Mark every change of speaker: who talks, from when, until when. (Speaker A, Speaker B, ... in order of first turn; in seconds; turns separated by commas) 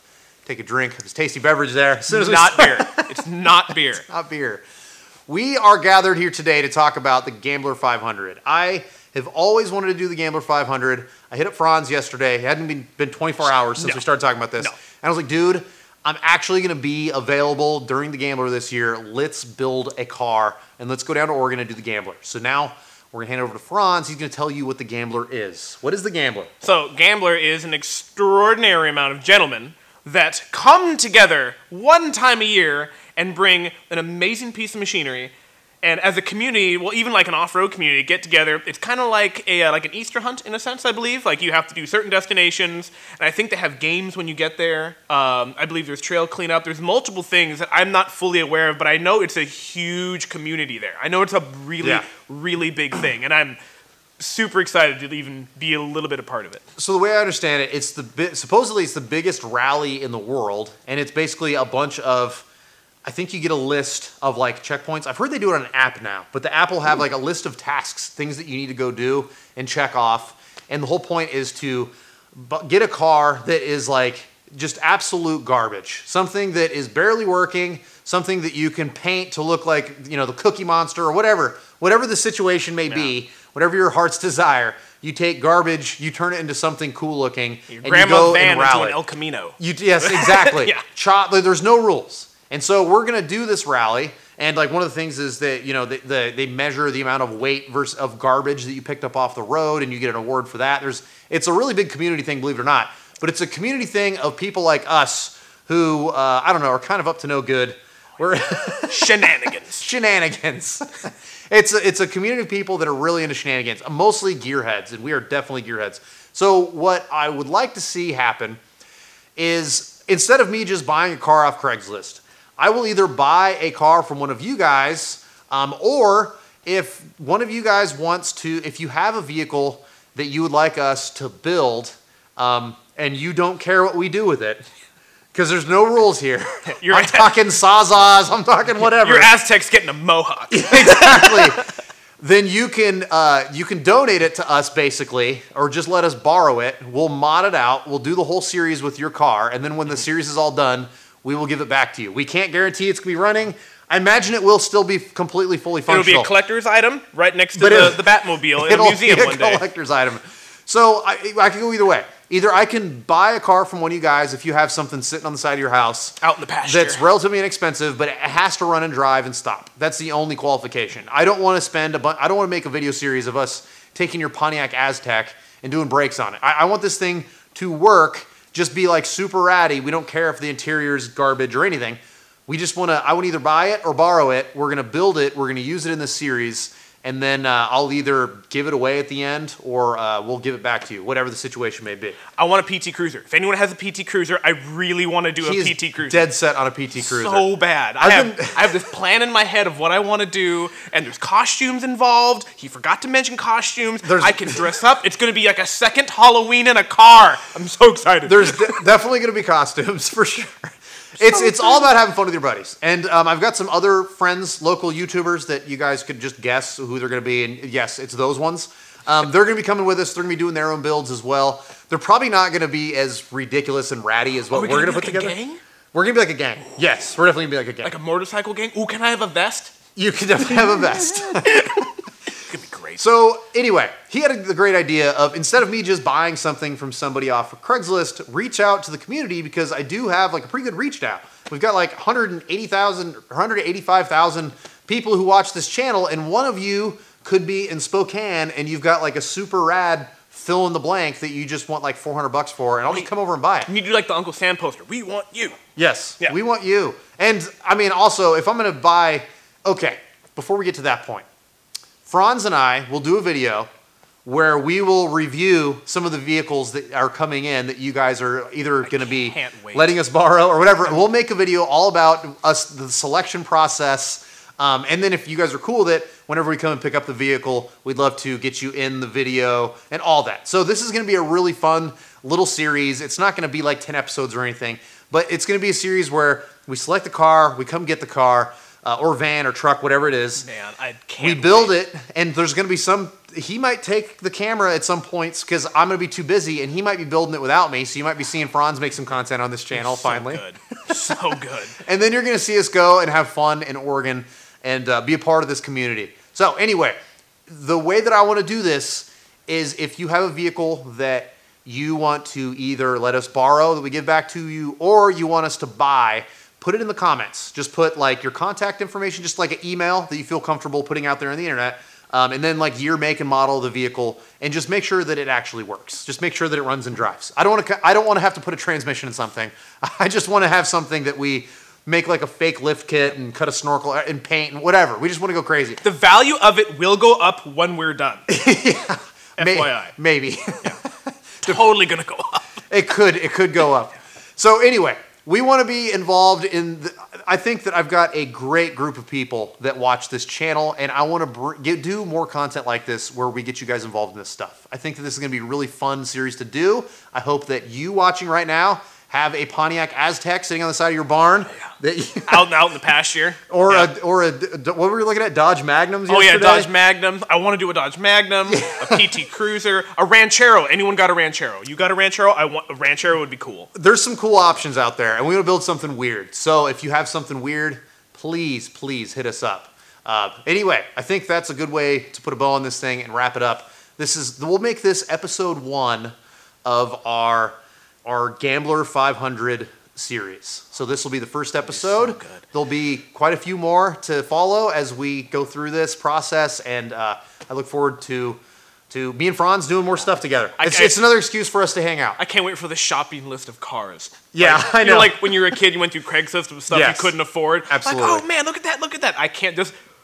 Speaker A: 0.5-3.1, Speaker B: 2.1-4.0, Speaker A: 4.0-4.6, Speaker A: 5.3-26.5, Speaker B: 26.6-53.6, Speaker A: 51.8-52.1, Speaker B: 54.2-56.6, Speaker A: 56.8-62.5, Speaker A: 63.0-89.0, Speaker B: 87.7-90.8, Speaker A: 89.6-109.2, Speaker B: 108.9-109.9, Speaker A: 109.8-118.6, Speaker A: 119.4-134.6, Speaker A: 135.3-139.3, Speaker B: 136.7-137.4, Speaker B: 138.8-141.6, Speaker A: 140.5-156.3, Speaker B: 155.9-159.7, Speaker A: 157.6-192.2, Speaker B: 166.2-167.1, Speaker B: 192.4-196.3, Speaker A: 195.4-197.5, Speaker B: 197.0-208.8, Speaker A: 198.0-198.6, Speaker A: 204.0-204.6, Speaker A: 208.3-225.4, Speaker B: 211.3-211.8, Speaker B: 224.5-225.6, Speaker A: 225.9-227.9, Speaker B: 227.8-229.8, Speaker A: 229.9-231.9, Speaker B: 230.6-231.9, Speaker B: 232.4-233.0, Speaker A: 233.0-253.7, Speaker B: 253.7-255.6, Speaker A: 255.8-261.3, Speaker A: 262.1-263.7, Speaker A: 264.2-290.5, Speaker B: 268.8-270.0, Speaker B: 290.4-291.8, Speaker A: 291.2-301.1, Speaker B: 299.7-301.8, Speaker A: 301.8-335.8, Speaker B: 335.8-338.3, Speaker A: 338.3-341.6, Speaker B: 339.4-339.9, Speaker B: 341.4-342.5, Speaker A: 342.7-362.6, Speaker B: 362.3-363.9, Speaker A: 363.5-366.7, Speaker B: 366.1-373.7, Speaker A: 368.5-369.1, Speaker A: 373.7-386.1, Speaker A: 386.7-398.4, Speaker B: 391.7-392.4, Speaker A: 398.9-402.2, Speaker B: 400.6-401.0, Speaker B: 402.2-409.8, Speaker A: 404.3-405.4, Speaker A: 406.7-407.1, Speaker A: 407.7-408.2